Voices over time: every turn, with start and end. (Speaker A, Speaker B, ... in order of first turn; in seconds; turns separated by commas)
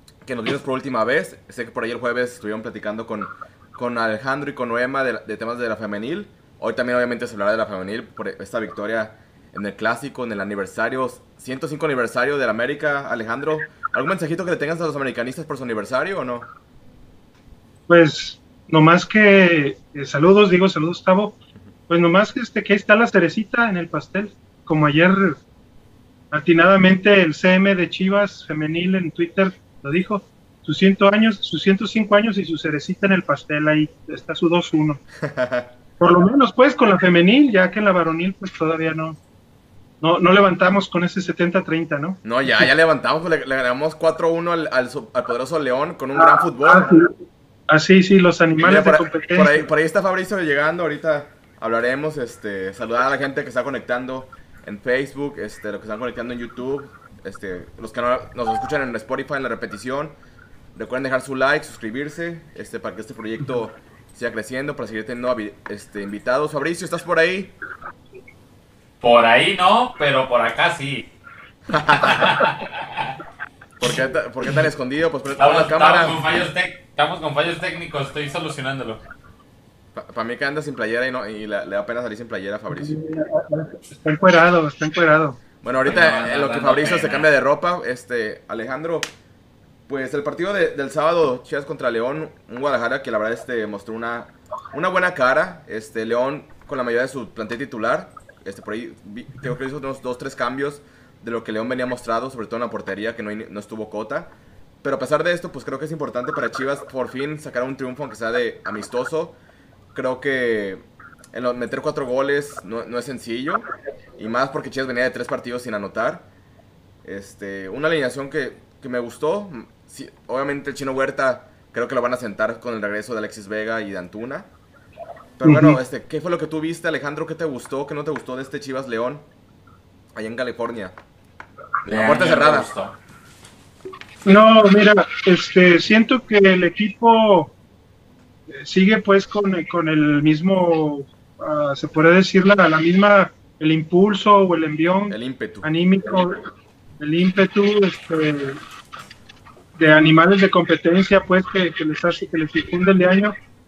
Speaker A: 0.2-16.5, Speaker B: 17.9-21.4, Speaker B: 21.9-25.4, Speaker B: 26.3-35.0, Speaker A: 35.2-35.7, Speaker B: 36.0-39.2, Speaker B: 40.0-42.7, Speaker A: 42.2-46.9, Speaker B: 46.1-47.1, Speaker B: 47.7-49.6, Speaker A: 48.6-60.1, Speaker A: 60.7-67.5, Speaker C: 69.0-71.1, Speaker A: 71.7-72.4, Speaker C: 71.9-73.1, Speaker A: 73.8-76.5, Speaker C: 75.4-79.0, Speaker A: 79.9-83.0, Speaker B: 82.7-85.4, Speaker A: 85.6-89.1, Speaker C: 85.8-87.3, Speaker A: 89.9-104.3, Speaker A: 104.8-109.3, Speaker A: 109.9-113.6, Speaker A: 114.2-116.3, Speaker A: 117.0-124.5, Speaker A: 125.4-129.2, Speaker B: 125.4-125.8, Speaker A: 130.1-130.9, Speaker C: 131.8-133.0, Speaker A: 131.9-132.7, Speaker B: 134.2-137.5, Speaker B: 138.5-146.4, Speaker A: 145.1-145.7, Speaker B: 147.0-148.6, Speaker B: 149.8-153.3